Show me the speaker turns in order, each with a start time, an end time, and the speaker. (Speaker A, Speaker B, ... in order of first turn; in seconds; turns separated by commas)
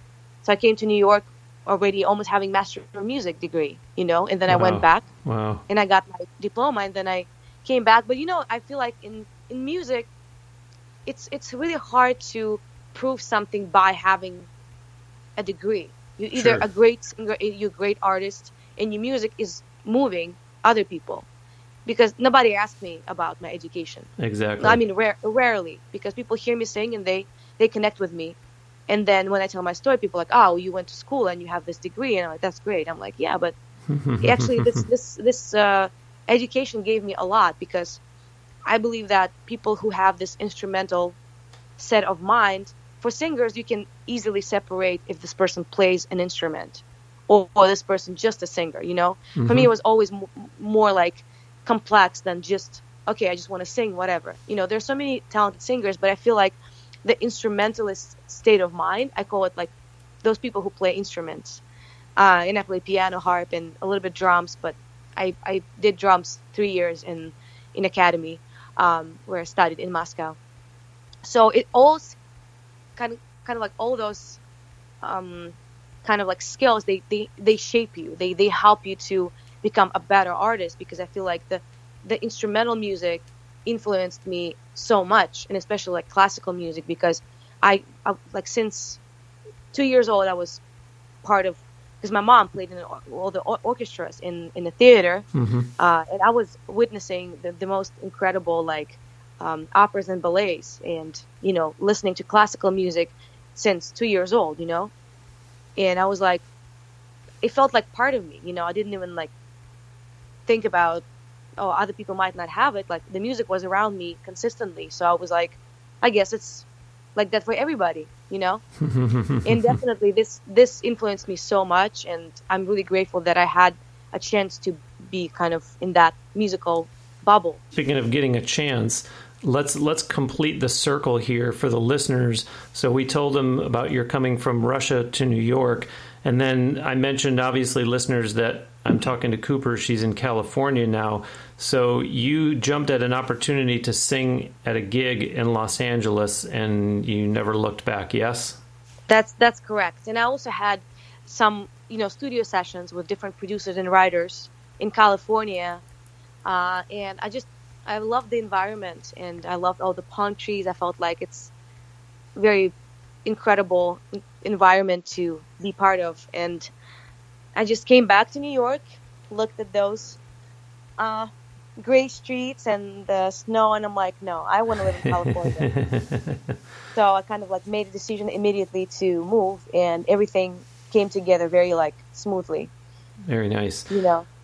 Speaker A: 0.4-5.1, Speaker B: 4.5-5.6, Speaker A: 5.7-10.1, Speaker A: 11.1-14.5, Speaker A: 15.4-21.3, Speaker B: 16.4-16.6, Speaker A: 21.9-24.1, Speaker B: 24.2-24.8, Speaker A: 24.6-28.4, Speaker A: 28.9-33.5, Speaker B: 33.9-34.8, Speaker A: 34.2-38.0, Speaker A: 38.7-41.2, Speaker A: 41.8-59.7, Speaker B: 49.4-49.7, Speaker A: 60.2-61.6, Speaker A: 62.2-70.4, Speaker A: 71.2-72.2, Speaker A: 73.0-74.4, Speaker A: 75.0-89.0, Speaker A: 89.7-90.6, Speaker A: 91.2-95.2, Speaker B: 95.3-95.7, Speaker A: 95.8-104.9, Speaker A: 105.8-106.4, Speaker A: 107.4-109.3, Speaker A: 110.5-111.0, Speaker A: 111.6-118.6, Speaker B: 118.8-119.8, Speaker A: 119.4-127.6, Speaker B: 127.7-148.6, Speaker A: 149.1-155.8, Speaker A: 156.5-161.5, Speaker A: 162.4-162.7, Speaker A: 163.2-166.7, Speaker A: 167.6-170.2, Speaker A: 171.0-175.7, Speaker B: 175.1-176.6, Speaker A: 176.9-182.7, Speaker B: 183.3-183.9, Speaker A: 183.9-184.3